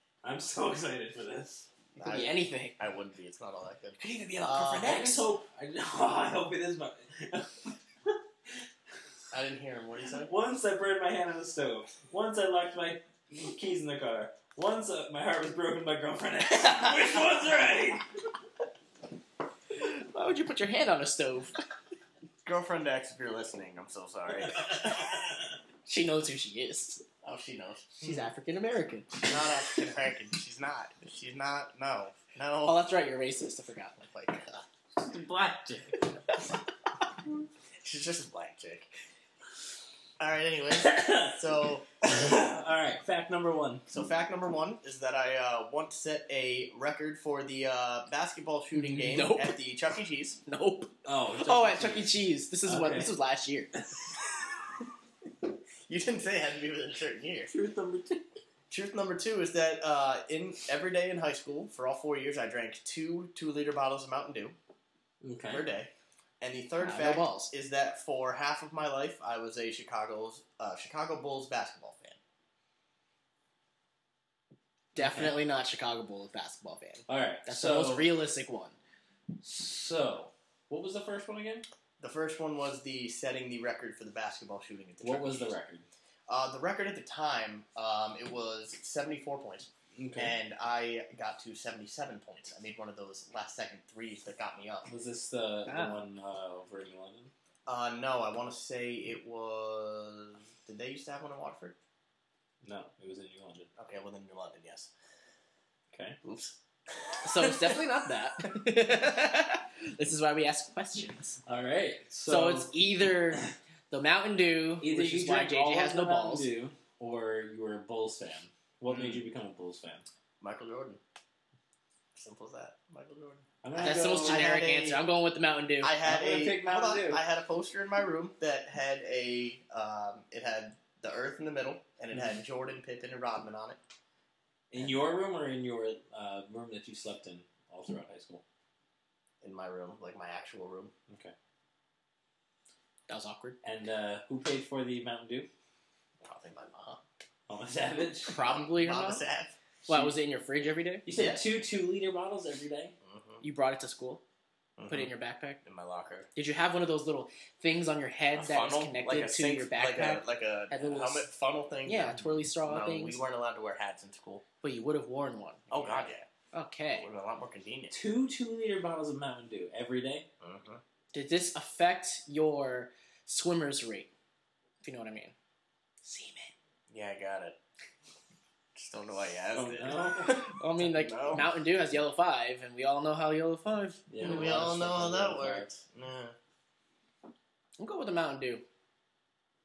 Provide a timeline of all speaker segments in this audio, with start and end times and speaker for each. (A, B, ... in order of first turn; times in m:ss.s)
0:00.2-0:01.7 A
0:02.0-0:05.0 B
0:02.0-0:02.8 C
0:04.0-0:05.3 C
0:04.8-0:08.2 A
0:09.3-0:10.3 B
0:10.2-0:18.0 A
0:19.7-0:21.5 C
0:22.4-0:24.9 B
0:25.8-0:27.0 C
0:27.2-0:28.3 B
0:28.0-0:29.3 C
0:29.2-0:32.8 B
0:32.6-0:34.0 C
0:34.0-0:34.6 B
0:35.0-0:36.1 A
0:37.8-0:38.9 B
0:40.2-0:41.8 B
0:40.8-0:41.4 A
0:42.0-0:43.8 A
0:43.9-0:50.4 B
0:48.7-0:49.6 C
0:50.4-0:53.7 C
0:51.0-0:53.1 A
0:55.9-0:57.5 B
0:57.5-0:58.2 A
0:58.7-1:04.6 B
1:05.2-1:05.7 A
1:05.5-1:12.2 B
1:06.8-1:07.5 C
1:14.9-1:18.8 C
1:15.0-1:15.3 A
1:17.1-1:18.1 A
1:19.4-1:21.6 A
1:22.0-1:25.5 B
1:25.0-1:25.8 A
1:26.3-1:34.9 B
1:30.0-1:30.4 A
1:34.9-1:37.3 A
1:35.7-1:36.0 C
1:37.6-1:41.8 B
1:42.6-1:43.7 A
1:43.8-1:44.9 B
1:45.9-1:46.2 A
1:46.2-1:46.6 B
1:47.2-1:51.4 C
1:47.4-1:47.7 B
1:51.4-1:52.7 A
1:52.3-1:56.5 C
1:54.8-2:00.0 A
1:58.9-1:59.2 B
2:00.4-2:01.0 B
2:02.1-2:05.0 B
2:03.6-2:04.5 A
2:03.8-2:06.0 C
2:05.8-2:13.8 B
2:06.0-2:07.2 A
2:14.7-2:18.4 A
2:19.4-2:20.9 B
2:21.1-2:21.3 A
2:23.1-2:23.6 C
2:23.6-2:25.5 A
2:26.2-2:27.0 B
2:27.5-2:28.5 A
2:28.2-2:29.2 C
2:28.4-2:29.6 B
2:29.9-2:30.1 A
2:29.9-2:31.0 C
2:31.0-2:32.9 A
2:31.1-2:31.4 B
2:33.0-2:33.4 B
2:33.4-2:34.2 C
2:34.8-2:35.1 B
2:34.9-2:35.6 C
2:35.6-2:36.3 B
2:36.3-2:41.3 C
2:38.3-2:44.4 B
2:41.8-2:43.2 C
2:44.6-2:47.1 C
2:45.7-2:46.3 B
2:46.9-2:47.9 B
2:47.9-2:50.2 A
2:50.4-2:50.8 B
2:51.1-2:54.1 C
2:54.8-2:55.3 C
2:56.0-2:56.5 C
2:56.9-2:57.6 B
2:58.7-3:01.5 B
2:59.5-3:00.4 A
3:00.3-3:04.5 C
3:04.1-3:05.7 A
3:04.2-3:06.4 B
3:07.8-3:08.6 C